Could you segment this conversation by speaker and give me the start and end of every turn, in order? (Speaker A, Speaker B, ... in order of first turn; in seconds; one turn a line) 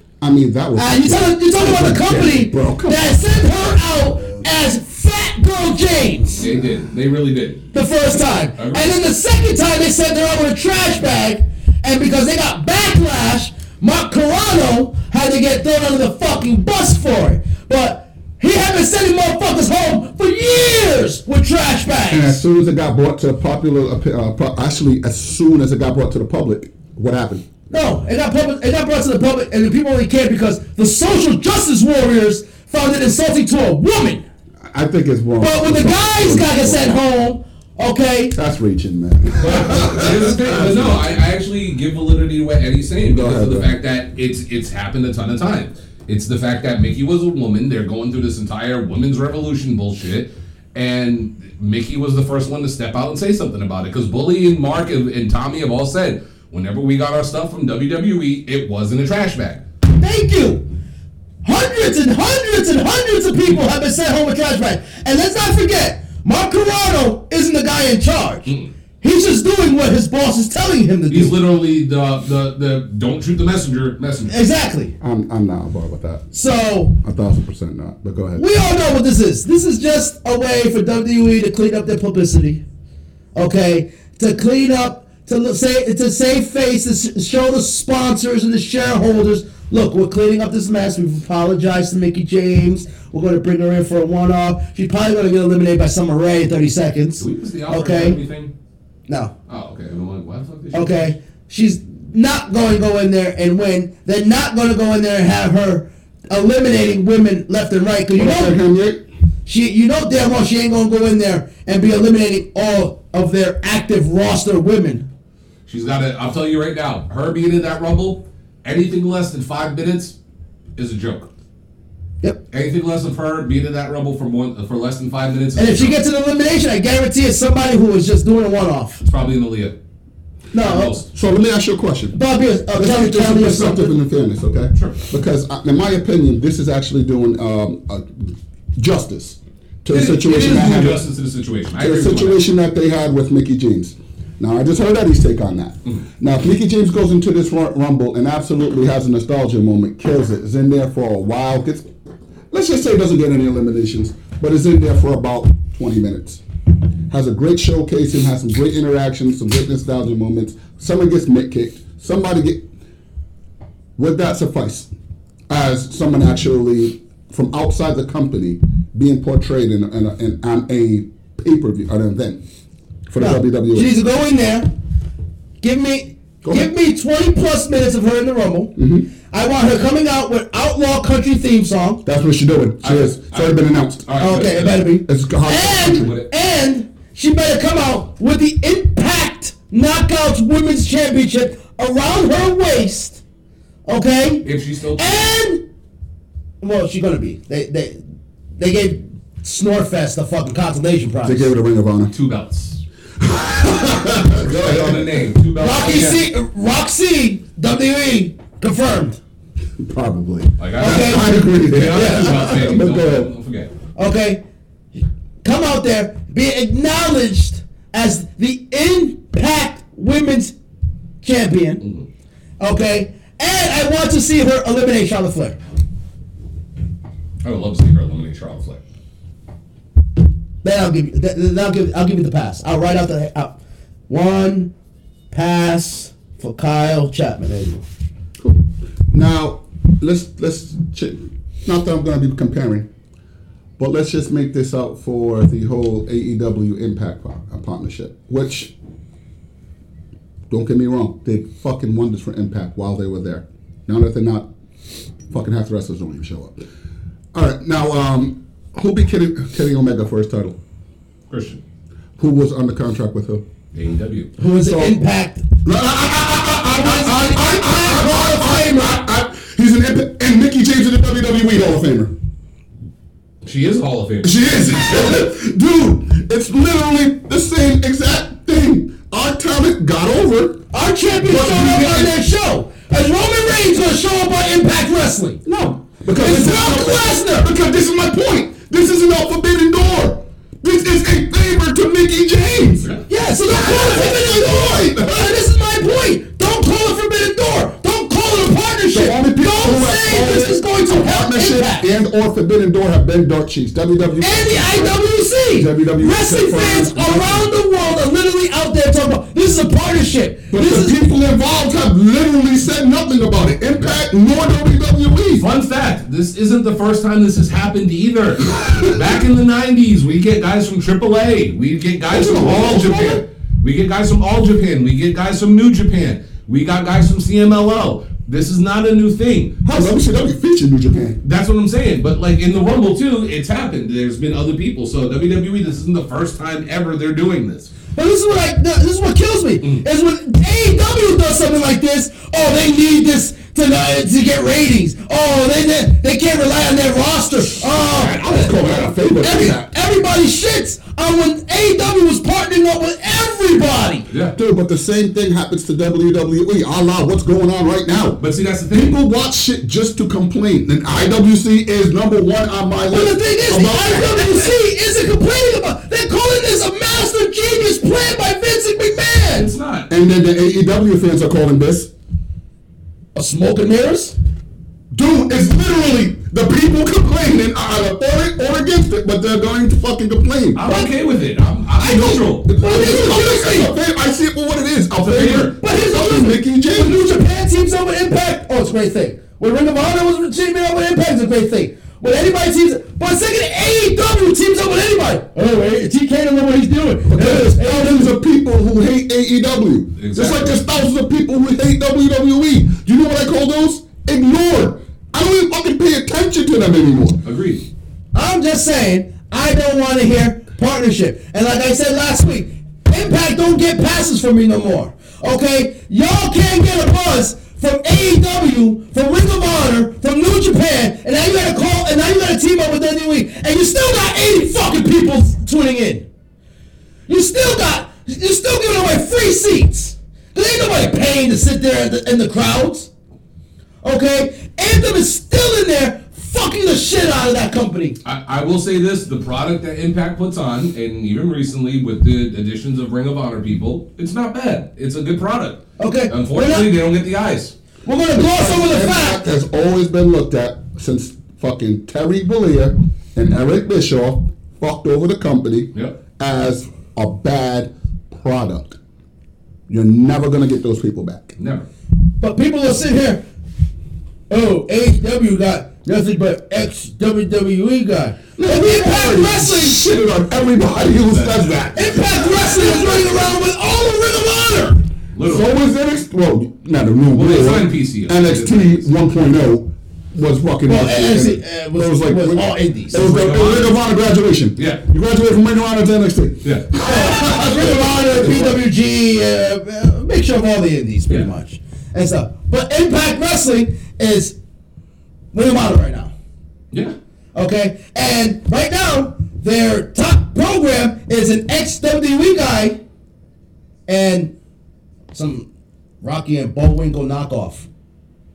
Speaker A: 0.2-3.1
Speaker B: 0.8-6.5
Speaker C: 6.4-7.7
Speaker B: 7.7-22.4
Speaker C: 8.6-8.9
Speaker A: 22.1-27.4
Speaker B: 27.7-34.2
Speaker A: 34.7-36.9
Speaker B: 35.4-38.4
Speaker A: 38.3-41.1
Speaker C: 39.4-59.6
Speaker B: 39.7-41.0
Speaker A: 43.0-43.7
Speaker B: 60.0-60.7
Speaker B: 61.4-71.4
Speaker C: 71.1-74.3
Speaker B: 74.3-74.9
Speaker A: 75.0-76.3
Speaker B: 76.3-77.0
Speaker A: 77.0-78.4
Speaker B: 78.4-82.6
Speaker B: 83.3-98.2
Speaker C: 97.2-98.5
Speaker C: 99.5-101.1
Speaker B: 100.7-108.6
Speaker A: 108.1-109.0
Speaker B: 109.5-115.1
Speaker C: 115.7-120.2
Speaker C: 120.8-121.3
Speaker C: 122.5-126.0
Speaker B: 125.6-129.0
Speaker C: 129.0-129.8
Speaker B: 130.5-131.0
Speaker C: 130.6-131.1
Speaker A: 131.1-132.2
Speaker B: 132.1-133.9
Speaker A: 132.8-141.0
Speaker C: 134.7-135.0
Speaker C: 139.9-142.4
Speaker A: 141.8-151.9
Speaker A: 152.5-156.4
Speaker A: 157.1-162.7
Speaker A: 164.0-164.9
Speaker A: 165.5-172.4
Speaker A: 173.1-173.9
Speaker B: 173.2-174.7
Speaker B: 175.6-178.7
Speaker A: 176.4-176.7
Speaker A: 178.8-179.1
Speaker B: 179.3-182.0
Speaker A: 182.1-184.1
Speaker C: 182.8-184.9
Speaker B: 184.2-193.2
Speaker A: 185.1-186.1
Speaker C: 185.8-186.3
Speaker B: 193.9-194.5
Speaker C: 194.4-195.3
Speaker B: 195.0-195.6
Speaker B: 196.6-198.0
Speaker B: 198.6-201.5
Speaker A: 201.2-202.1
Speaker C: 202.1-202.8
Speaker A: 203.2-205.3
Speaker C: 204.2-206.2
Speaker B: 205.6-209.2
Speaker A: 209.8-213.3
Speaker C: 210.6-213.7
Speaker B: 210.8-212.7
Speaker B: 214.0-214.4
Speaker B: 215.4-220.6
Speaker B: 221.2-221.8
Speaker B: 222.6-225.6
Speaker C: 227.4-228.8
Speaker B: 230.6-233.6
Speaker B: 234.1-234.7
Speaker B: 235.3-237.8
Speaker A: 238.4-242.9
Speaker A: 243.8-248.7
Speaker A: 250.5-254.5
Speaker A: 255.3-256.6
Speaker A: 257.3-260.6
Speaker C: 261.3-261.6
Speaker A: 262.2-263.4
Speaker C: 263.7-264.3
Speaker B: 264.4-265.5
Speaker A: 264.6-265.0
Speaker A: 265.6-272.1
Speaker B: 266.7-269.0
Speaker C: 273.4-274.4
Speaker A: 274.2-280.6
Speaker B: 280.7-285.4
Speaker A: 281.2-282.1
Speaker A: 285.4-292.9
Speaker B: 286.2-287.5
Speaker B: 293.1-301.9
Speaker A: 293.5-295.4
Speaker A: 298.9-305.0
Speaker B: 304.2-311.0
Speaker A: 305.5-307.5
Speaker A: 310.5-315.5
Speaker C: 315.4-329.6
Speaker A: 318.6-318.9
Speaker A: 322.1-323.2
Speaker B: 329.7-329.9
Speaker A: 329.7-331.2
Speaker C: 331.2-337.7
Speaker B: 337.9-354.1
Speaker A: 347.8-349.7
Speaker C: 354.1-354.4
Speaker A: 354.4-364.5
Speaker C: 358.2-359.0
Speaker B: 362.9-369.5
Speaker C: 369.4-369.9
Speaker A: 369.9-371.9
Speaker B: 373.1-374.1
Speaker A: 374.9-380.7
Speaker C: 380.6-382.5
Speaker A: 381.8-387.0
Speaker B: 381.8-383.7
Speaker C: 385.0-385.6
Speaker B: 385.5-398.1
Speaker A: 397.1-407.2
Speaker C: 400.0-400.5
Speaker C: 407.2-407.6
Speaker B: 408.1-426.1
Speaker B: 427.1-432.9
Speaker B: 433.8-438.0
Speaker C: 438.0-447.5
Speaker B: 445.8-446.7
Speaker B: 447.9-449.2
Speaker A: 448.1-458.8
Speaker A: 459.7-461.4
Speaker C: 461.4-461.7
Speaker B: 462.2-463.2
Speaker B: 464.3-469.9
Speaker A: 468.4-473.2
Speaker C: 471.1-471.7
Speaker B: 471.8-474.8
Speaker C: 475.1-475.5
Speaker A: 475.2-488.6
Speaker C: 477.1-478.9
Speaker B: 480.7-483.1
Speaker C: 482.9-483.8
Speaker C: 484.6-484.8
Speaker B: 486.8-494.4
Speaker B: 495.3-496.1
Speaker B: 497.4-502.8
Speaker B: 503.9-504.3
Speaker B: 505.1-505.5
Speaker B: 506.0-507.7